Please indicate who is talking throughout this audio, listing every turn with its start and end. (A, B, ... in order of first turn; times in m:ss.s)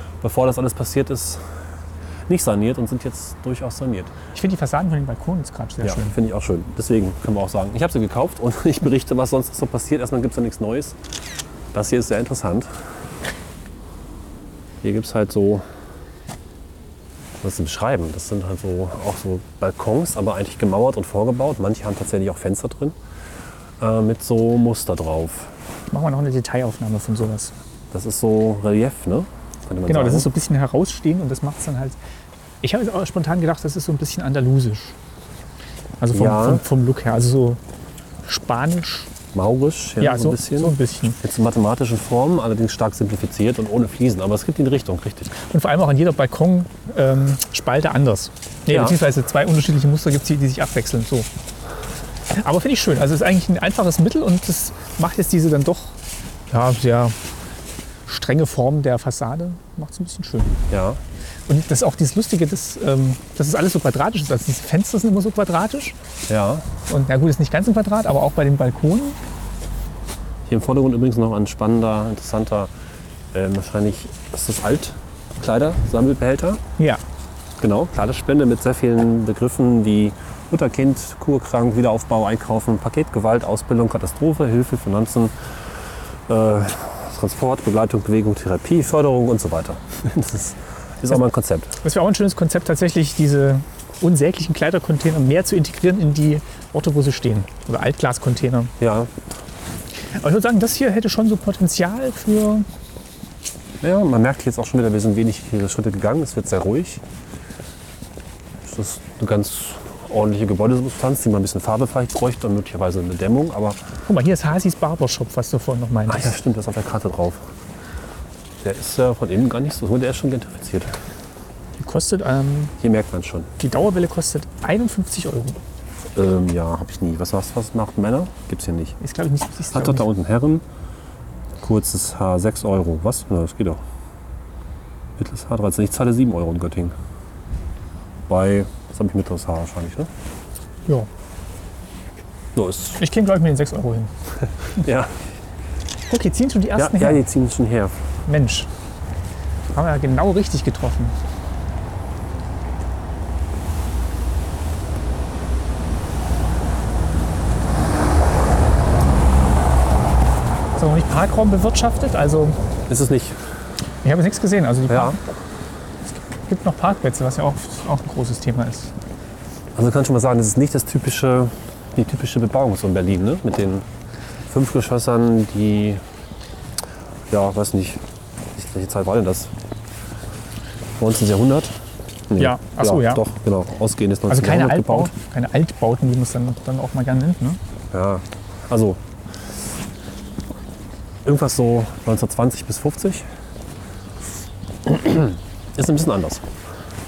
0:00.2-0:01.4 A
0:02.3-0:04.1 A
0:04.3-0:06.2 B
0:05.8-0:11.0 A
0:11.7-0:12.7 A
0:14.8-0:15.6 A
0:17.4-0:23.0 A
0:23.8-0:25.5 A
0:25.9-0:27.5 B
0:27.9-0:30.3 A
0:29.9-0:32.0 B
0:32.6-0:35.0 B
0:36.0-0:37.6 B
0:36.1-0:36.6 A
0:38.2-0:39.1 B
0:39.3-0:45.3 A
0:40.0-0:41.2 B
0:45.4-0:51.3 B
0:48.7-0:49.0 A
0:52.3-0:56.0 B
0:56.5-0:57.2 B
0:58.0-1:00.6 B
1:00.7-1:01.0 A
1:01.5-1:06.0 B
1:06.3-1:06.7 A
1:06.9-1:09.2 B
1:10.4-1:12.7 A
1:13.3-1:16.6 A
1:17.6-1:25.3 A
1:26.3-1:31.8 A
1:31.8-1:38.7 B
1:38.8-1:39.1 A
1:40.2-1:42.6 B
1:43.8-1:47.0 A
1:48.6-1:53.8 A
1:54.1-1:56.4 B
1:56.1-1:57.5 A
1:58.6-2:00.9 A
2:01.8-2:02.7 B
2:02.8-2:03.5 A
2:03.6-2:05.6 B
2:06.1-2:09.0 A
2:09.0-2:10.1 B
2:09.7-2:10.6 A
2:11.6-2:13.8 A
2:15.2-2:16.9 A
2:18.3-2:20.1 A
2:22.5-2:23.0 A
2:23.0-2:24.1 B
2:24.8-2:25.1 A
2:26.1-2:27.2 B
2:26.8-2:28.0 A
2:28.2-2:28.7 B
2:29.7-2:31.2 B
2:40.8-2:42.6 B
2:42.9-2:43.4 A
2:44.0-2:45.2 B
2:44.9-2:45.2 A
2:46.3-2:48.9 B
2:49.7-2:53.8 A
2:54.5-2:56.0 A
2:57.3-2:58.0 A
2:58.5-2:59.5 A
3:01.0-3:01.8 A
3:02.3-3:05.1 A
3:02.4-3:03.2 B
3:04.3-3:07.6 B
3:07.9-3:09.0 A
3:11.2-3:13.2 A
3:14.8-3:16.5 A